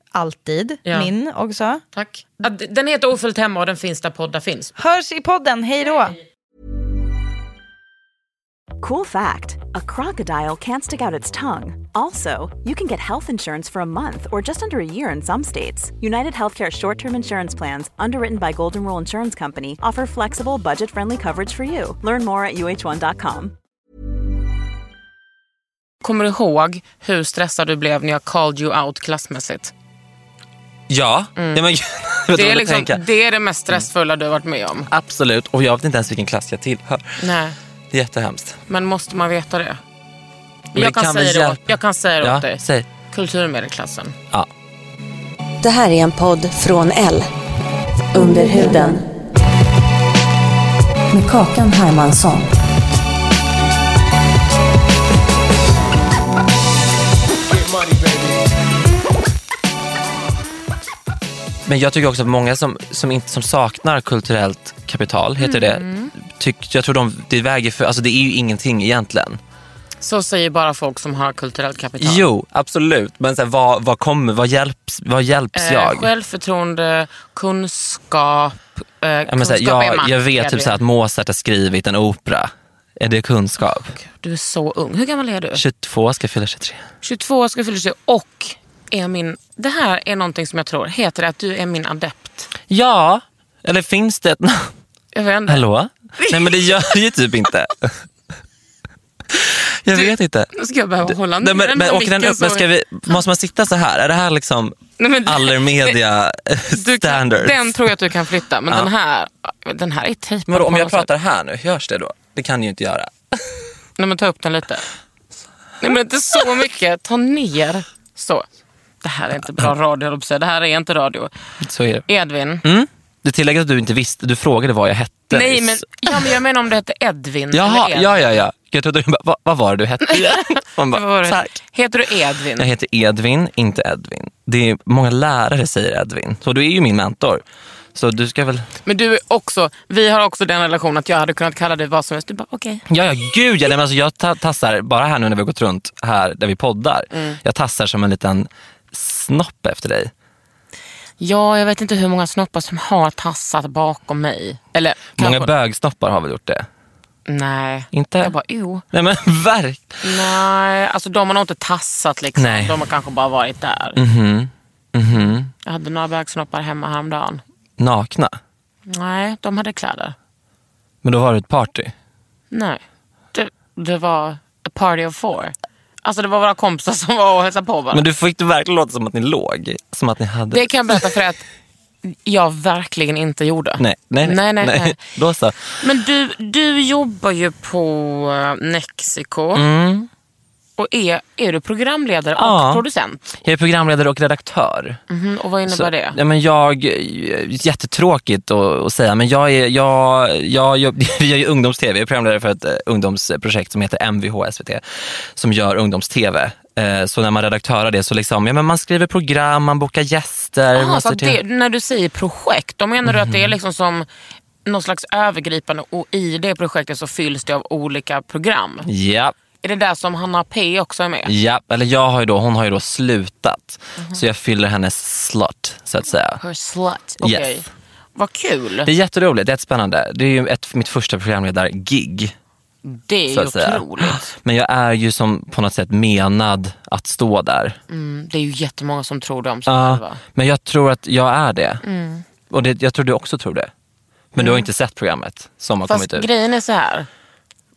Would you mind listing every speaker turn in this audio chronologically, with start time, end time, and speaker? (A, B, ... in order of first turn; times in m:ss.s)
0:00.1-0:01.8 A
0:00.8-0:01.1 B
0:01.9-0:04.7 B
0:04.8-0:06.2 A
0:08.8-0:23.5 C
0:26.0-0:29.7 B
0:30.9-0:33.0 D
0:31.4-0:31.6 B
0:32.3-0:34.9 B
0:34.9-0:37.2 D
0:37.2-0:37.6 B
0:37.9-0:38.6 D
0:38.7-0:39.8 B
0:40.7-0:42.9 D
0:40.7-0:44.2 B
0:45.6-0:47.3 E
0:48.1-0:49.0 E
0:51.1-0:52.5 E
1:01.7-1:09.4 D
1:05.4-1:06.1 B
1:10.0-1:12.3 B
1:12.0-1:16.1 D
1:15.5-1:20.8 B
1:19.3-1:24.0 D
1:24.0-1:25.6 B
1:25.5-1:26.8 D
1:27.0-1:32.5 B
1:32.7-1:34.7 D
1:35.1-1:35.6 B
1:35.5-1:38.0 D
1:36.2-1:37.0 B
1:39.3-1:40.5 D
1:39.9-1:42.7 B
1:41.0-1:47.7 D
1:45.0-1:46.0 B
1:46.7-1:51.1 B
1:50.5-1:53.5 D
1:54.0-1:54.9 B
1:55.8-1:58.5 B
1:59.0-2:01.3 B
2:01.6-2:02.1 D
2:02.1-2:02.6 B
2:02.6-2:06.4 D
2:05.3-2:08.3 B
2:07.5-2:11.6 D
2:10.0-2:12.7 B
2:12.6-2:17.4 D
2:18.0-2:18.7 D
2:18.8-2:22.8 B
2:22.9-2:30.1 D
2:27.1-2:27.4 B
2:31.2-2:35.5 B
2:35.2-2:36.7 D
2:37.3-2:38.8 B
2:37.9-2:38.4 D
2:38.9-2:40.3 D
2:40.0-2:44.0 B
2:42.4-2:42.8 D
2:44.0-2:45.5 D
2:45.6-2:47.4 B
2:47.8-2:48.4 D
2:48.9-2:50.2 B
2:51.0-2:52.0 D
2:52.5-2:52.8 B
2:53.3-2:58.0 B
2:57.9-3:01.1 D
3:00.5-3:01.4 B
3:02.0-3:05.0 B
3:03.8-3:05.8 D
3:05.8-3:09.6 B
3:09.5-3:10.1 D
3:10.8-3:13.3 B
3:12.4-3:12.8 D
3:13.4-3:15.0 D
3:15.1-3:16.2 B
3:15.7-3:31.4 D
3:30.7-3:34.1 B
3:33.0-3:33.5 D
3:34.6-3:38.9 B
3:38.8-3:39.3 D
3:39.6-3:41.3 B
3:41.3-3:46.4 D
3:46.4-3:48.9 B
3:47.2-3:47.5 D
3:48.8-3:52.4 D
3:52.8-3:54.4 B
3:53.3-3:57.8 D
3:57.9-4:00.2 B
3:59.7-4:01.8 D
4:01.8-4:02.2 B
4:02.5-4:03.7 D
4:04.3-4:06.3 D
4:04.4-4:04.7 B
4:05.9-4:07.1 B